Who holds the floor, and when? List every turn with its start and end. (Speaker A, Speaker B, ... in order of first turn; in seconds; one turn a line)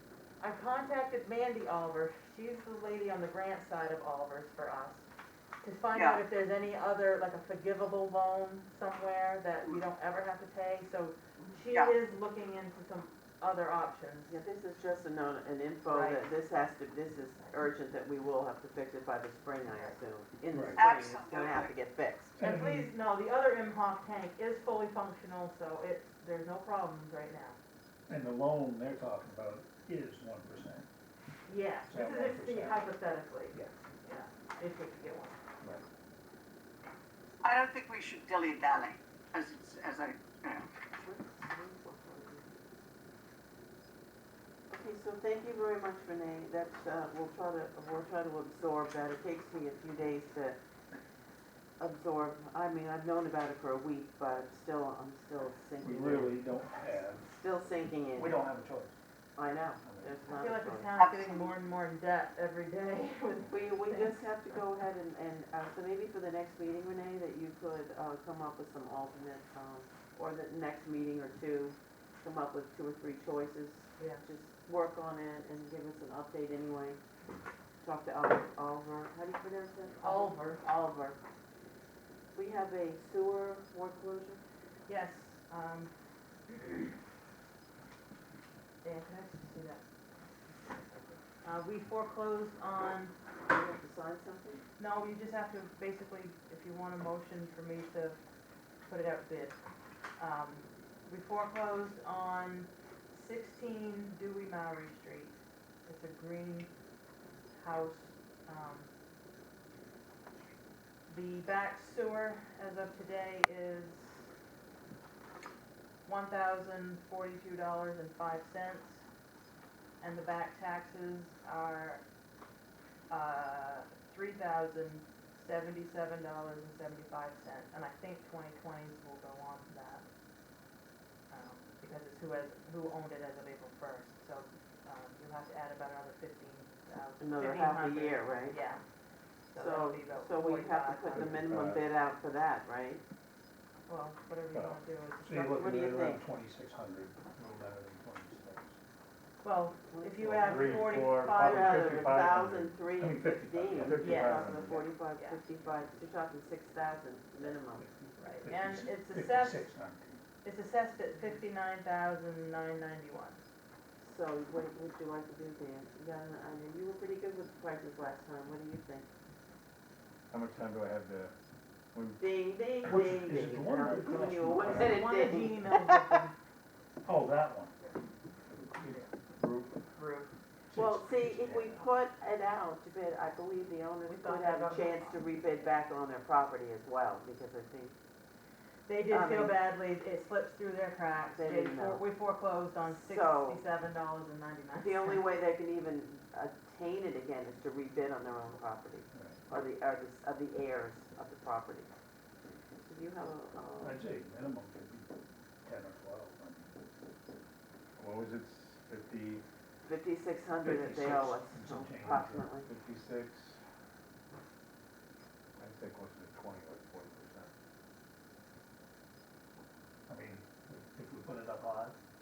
Speaker A: 0.4-5.1
Speaker A: 5.6-14.4
Speaker B: 5.9-6.2
Speaker C: 14.3-22.4
Speaker A: 15.9-16.3
Speaker D: 20.5-20.8
Speaker B: 20.8-21.7
Speaker D: 22.4-22.9
Speaker A: 22.4-27.6
Speaker D: 28.1-30.9
Speaker A: 31.5-35.4
Speaker D: 31.9-32.9
Speaker B: 37.4-40.7
Speaker C: 41.0-42.5
Speaker C: 44.7-50.6
Speaker C: 51.8-56.5
Speaker D: 55.8-57.4
Speaker C: 57.3-58.5
Speaker D: 58.2-59.0
Speaker C: 59.4-61.0
Speaker D: 59.8-60.1
Speaker A: 60.3-64.4
Speaker B: 60.9-61.5
Speaker C: 63.5-77.0
Speaker C: 77.8-81.2
Speaker A: 80.0-80.6
Speaker C: 82.3-84.4
Speaker A: 84.9-85.9
Speaker A: 86.5-86.9
Speaker A: 88.8-89.8
Speaker A: 90.6-93.1
Speaker C: 93.5-94.6
Speaker A: 94.8-98.2
Speaker A: 98.9-99.6
Speaker A: 100.2-106.7
Speaker A: 107.6-108.9
Speaker A: 111.1-114.3
Speaker A: 116.0-119.0
Speaker A: 120.0-122.0
Speaker A: 123.1-130.1
Speaker A: 131.3-138.8
Speaker C: 137.2-138.6
Speaker A: 139.5-141.4
Speaker C: 139.6-143.0
Speaker E: 141.1-141.8
Speaker A: 143.9-145.7
Speaker E: 144.5-144.8
Speaker D: 145.2-148.8
Speaker C: 145.6-146.2
Speaker A: 149.4-152.0
Speaker C: 149.9-150.8
Speaker E: 150.2-152.8
Speaker C: 151.3-157.8
Speaker D: 152.8-154.1
Speaker E: 153.8-154.9
Speaker A: 154.0-154.6
Speaker A: 155.2-155.4
Speaker D: 157.4-160.2
Speaker A: 158.2-159.7
Speaker A: 160.4-163.4
Speaker C: 164.0-169.1
Speaker E: 170.3-171.3
Speaker E: 171.9-172.2
Speaker C: 172.2-175.9
Speaker D: 172.8-175.1
Speaker A: 174.6-176.3
Speaker D: 177.0-177.8
Speaker D: 178.6-179.7
Speaker A: 178.8-179.1
Speaker A: 179.9-180.3
Speaker D: 180.7-181.8
Speaker C: 180.7-187.9
Speaker A: 184.1-185.3
Speaker A: 188.9-195.2
Speaker C: 189.1-189.6
Speaker C: 191.3-192.0
Speaker C: 192.9-193.6
Speaker C: 194.8-201.9
Speaker D: 199.1-199.4
Speaker C: 202.9-204.1
Speaker D: 203.8-205.1
Speaker D: 205.6-206.8
Speaker E: 208.0-209.4
Speaker C: 209.8-212.7
Speaker D: 210.6-212.5
Speaker E: 212.7-213.6
Speaker E: 215.6-217.5
Speaker D: 220.1-222.0